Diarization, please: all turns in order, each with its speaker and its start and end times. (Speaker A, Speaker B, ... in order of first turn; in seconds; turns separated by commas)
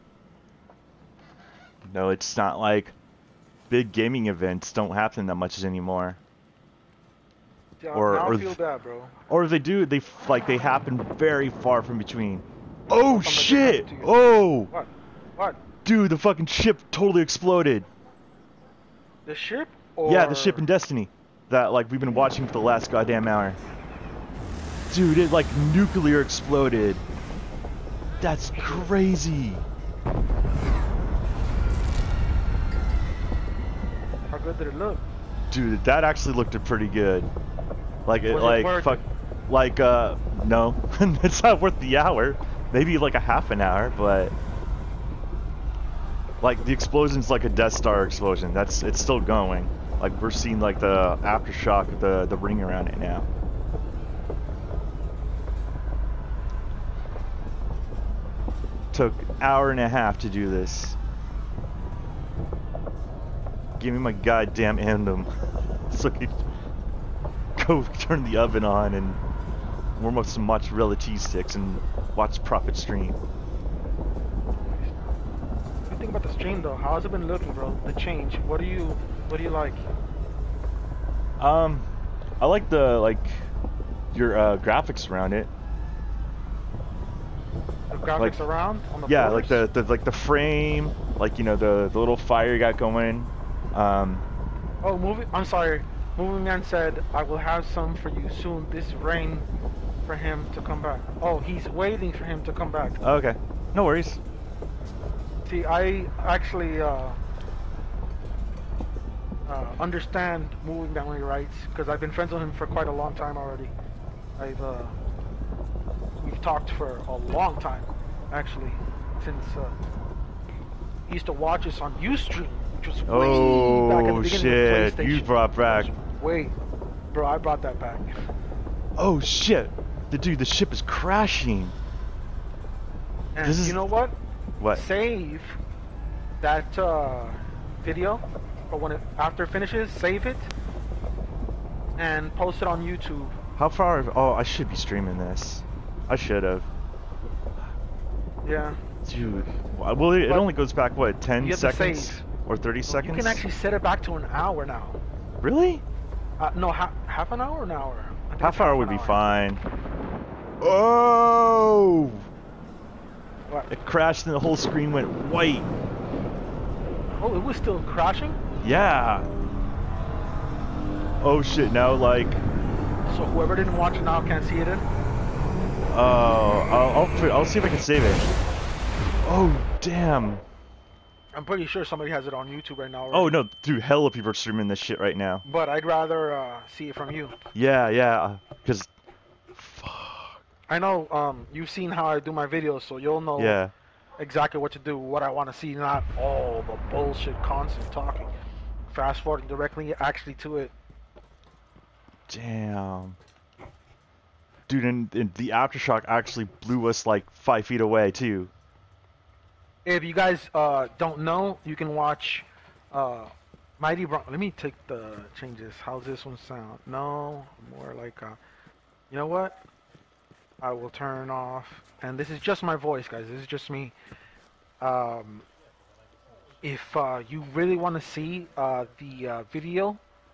Speaker A: 1.9-2.9, Speaker A: 3.7-6.2, Speaker B: 7.8-9.1, Speaker A: 7.9-8.6, Speaker A: 9.3-14.7, Speaker B: 13.1-15.7, Speaker A: 15.8-17.9, Speaker B: 19.2-20.7, Speaker A: 20.1-23.6, Speaker A: 24.9-27.0, Speaker A: 28.2-29.6, Speaker B: 28.6-28.9, Speaker B: 34.3-35.0, Speaker A: 35.5-37.3, Speaker A: 38.0-44.3, Speaker B: 38.3-39.0, Speaker A: 46.4-53.3, Speaker A: 58.9-61.0, Speaker A: 63.8-65.3, Speaker A: 65.9-66.4, Speaker A: 67.6-69.2, Speaker A: 70.0-73.2, Speaker B: 74.5-75.2, Speaker B: 75.9-79.9, Speaker A: 81.4-81.9, Speaker A: 82.4-83.5, Speaker A: 84.1-85.5, Speaker B: 87.9-89.7, Speaker A: 89.1-94.2, Speaker B: 94.8-99.5, Speaker B: 100.1-103.0, Speaker A: 103.0-104.2, Speaker B: 105.5-107.2, Speaker B: 109.5-113.7, Speaker B: 114.4-115.0, Speaker B: 116.2-119.8, Speaker B: 121.1-126.5, Speaker A: 123.1-125.9, Speaker B: 127.1-128.2, Speaker A: 129.0-131.8, Speaker B: 133.3-134.2, Speaker A: 133.4-133.8, Speaker B: 134.7-135.6, Speaker B: 136.4-140.5, Speaker B: 142.0-143.3, Speaker A: 143.6-146.7, Speaker B: 148.4-149.6, Speaker A: 149.1-153.4, Speaker B: 150.2-150.5, Speaker B: 151.4-152.2, Speaker B: 152.8-155.0, Speaker A: 155.4-155.8, Speaker B: 156.4-159.3, Speaker A: 158.4-159.6, Speaker A: 160.6-162.3, Speaker A: 163.7-165.7, Speaker B: 167.2-168.4, Speaker A: 168.6-169.3, Speaker A: 171.2-172.4, Speaker B: 173.1-174.8, Speaker A: 175.9-178.3, Speaker A: 179.2-180.4, Speaker B: 181.3-183.4, Speaker A: 183.1-185.4, Speaker B: 185.4-187.4, Speaker A: 187.5-188.9, Speaker A: 189.5-190.4, Speaker B: 190.7-193.6, Speaker A: 193.4-193.7, Speaker B: 194.2-198.3, Speaker B: 198.9-200.7, Speaker A: 202.3-203.2, Speaker A: 204.7-208.5, Speaker B: 209.8-218.4, Speaker B: 219.1-219.6, Speaker B: 220.6-223.9, Speaker B: 224.8-225.5, Speaker B: 226.6-230.0